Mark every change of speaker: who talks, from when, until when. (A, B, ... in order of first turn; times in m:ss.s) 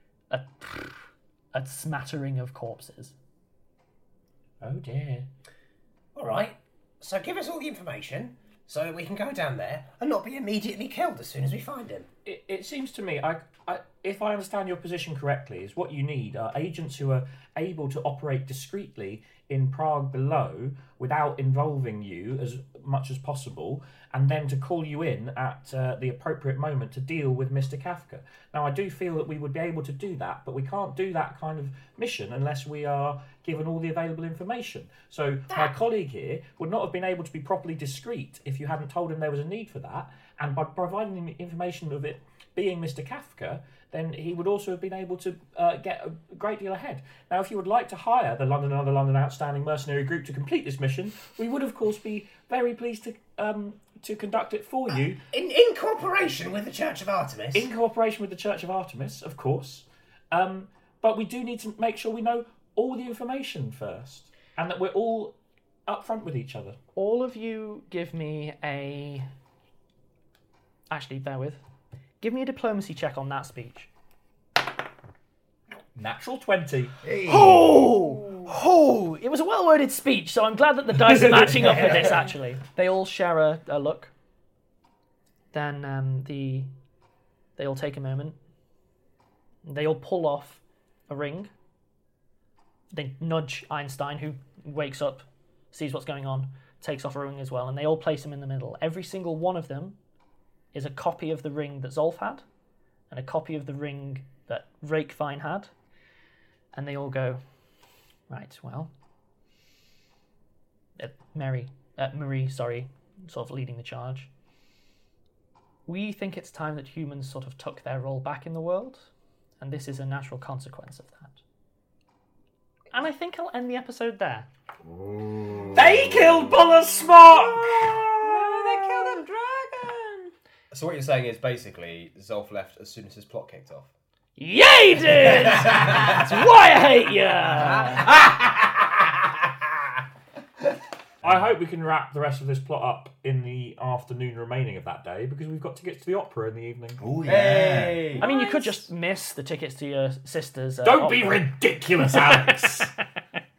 0:00.3-0:03.2 A
0:04.6-0:05.3 B
0:06.2-0:12.1 C
0:12.3-0:55.2 B
0:55.3-0:57.7 C
0:57.5-1:05.4 B
1:05.9-1:06.8 B
1:07.0-1:09.3 A
1:10.9-1:11.6 A
1:12.2-1:13.9 A
1:16.0-1:17.0 B
1:17.0-1:17.8 D
1:17.2-1:24.1 A
1:17.9-1:18.5 E
1:25.5-1:26.7 A
1:27.6-1:28.4 A
1:29.6-1:31.5 A
1:32.9-1:40.0 A
1:40.7-1:42.4 A
1:43.1-1:45.7 A
1:46.7-1:47.4 A
1:48.3-1:48.9 A
1:51.0-1:54.3 A
1:55.9-1:59.1 A
1:59.6-2:01.4 A
2:02.9-2:04.5 A
2:05.8-2:07.9 B
2:07.6-2:10.3 E
2:08.4-2:09.1 A
2:10.7-2:13.9 F
2:14.4-2:18.1 A
2:21.2-2:27.1 B
2:27.0-2:28.1 D
2:27.2-2:28.2 F
2:28.2-2:28.9 E
2:28.2-2:32.7 A
2:30.8-2:32.9 B